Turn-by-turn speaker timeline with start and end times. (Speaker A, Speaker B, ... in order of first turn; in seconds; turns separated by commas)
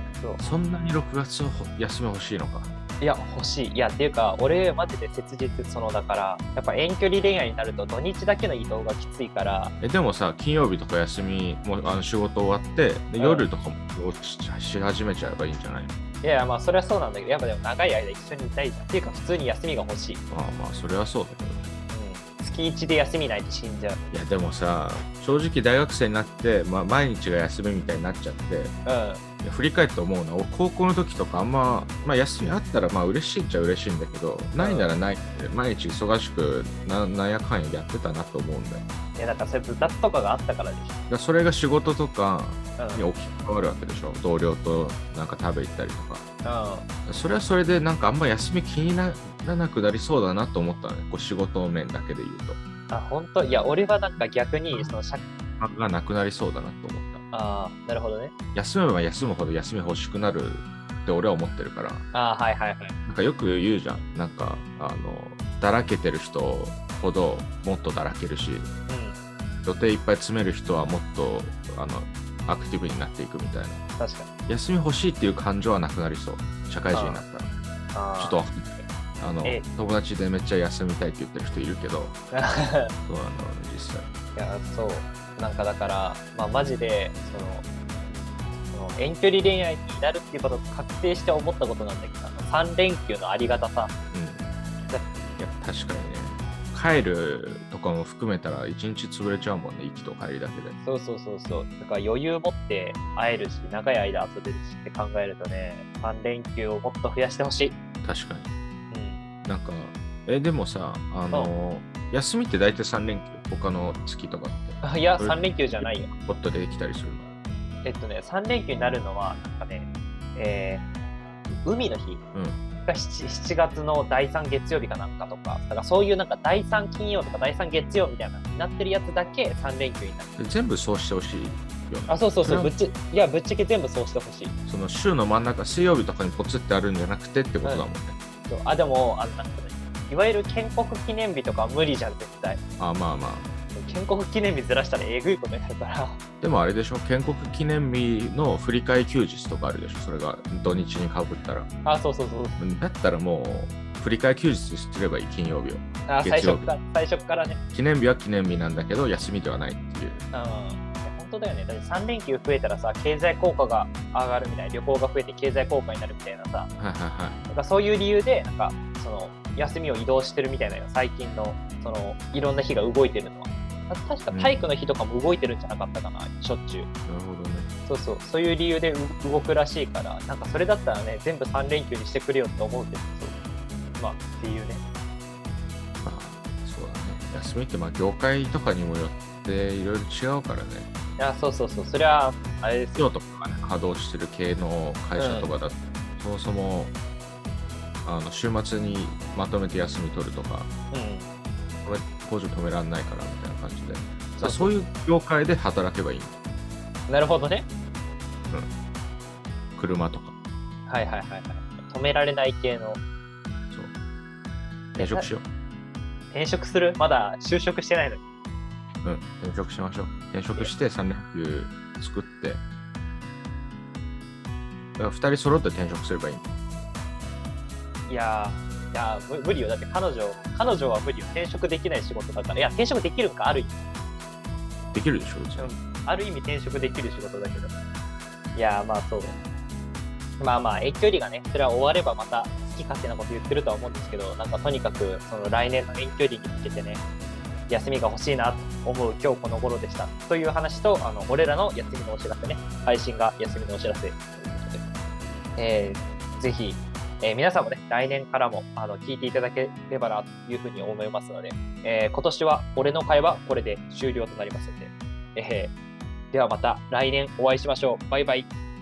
Speaker A: 0.4-2.7, Speaker B: 3.0-9.7, Speaker A: 9.8-15.9, Speaker B: 13.2-13.5, Speaker B: 16.2-20.2, Speaker A: 20.3-21.7, Speaker B: 21.9-24.0, Speaker A: 24.1-28.8, Speaker B: 28.9-29.2, Speaker A: 29.4-38.9, Speaker B: 34.6-34.9, Speaker B: 39.2-41.0, Speaker A: 41.1-46.2, Speaker B: 42.8-43.1, Speaker B: 46.4-46.9, Speaker A: 47.1-52.6, Speaker B: 52.9-55.2, Speaker A: 55.6-57.2, Speaker B: 57.3-58.3, Speaker A: 58.5-62.1, Speaker B: 62.1-63.0, Speaker A: 63.1-68.7, Speaker B: 68.9-69.2, Speaker A: 69.6-73.8, Speaker B: 74.0-74.3, Speaker A: 74.5-77.5, Speaker B: 76.9-77.2, Speaker B: 77.9-78.4, Speaker A: 78.2-82.2, Speaker B: 82.3-82.9, Speaker A: 83.1-84.1, Speaker B: 84.4-93.9, Speaker A: 94.1-94.5, Speaker A: 95.4-100.8, Speaker B: 100.8-107.8, Speaker A: 108.0-108.5, Speaker B: 108.9-109.3, Speaker A: 109.4-117.3, Speaker B: 114.8-116.1, Speaker B: 117.8-120.9, Speaker B: 121.5-122.2, Speaker A: 122.3-122.6, Speaker B: 122.8-130.3, Speaker A: 130.4-132.7, Speaker B: 132.1-134.6, Speaker A: 134.7-138.2, Speaker B: 138.5-142.6, Speaker A: 142.8-143.5, Speaker B: 143.8-146.2, Speaker A: 146.4-151.7, Speaker B: 151.8-152.6, Speaker A: 152.6-156.7, Speaker B: 156.1-157.6, Speaker A: 157.7-160.2, Speaker B: 160.3-166.7, Speaker A: 166.8-167.4, Speaker B: 167.5-176.9, Speaker A: 174.3-174.7, Speaker A: 177.1-177.7, Speaker B: 177.9-183.3, Speaker B: 184.0-184.8, Speaker A: 186.0-190.9, Speaker B: 191.2-193.0, Speaker A: 192.9-196.9, Speaker B: 195.2-195.5, Speaker A: 198.0-200.7, Speaker B: 200.9-201.3, Speaker A: 201.8-206.4, Speaker B: 204.4-204.7, Speaker B: 207.1-207.7, Speaker A: 209.8-210.3, Speaker B: 210.9-213.0, Speaker A: 214.9-215.5, Speaker B: 215.0-215.3, Speaker B: 216.3-218.2, Speaker A: 219.0-222.6, Speaker A: 225.0-226.4, Speaker B: 228.1-233.8, Speaker A: 234.9-235.7, Speaker B: 235.6-237.7, Speaker B: 238.5-239.4, Speaker B: 240.4-247.0, Speaker B: 247.7-254.9, Speaker B: 255.6-265.7, Speaker B: 266.3-268.5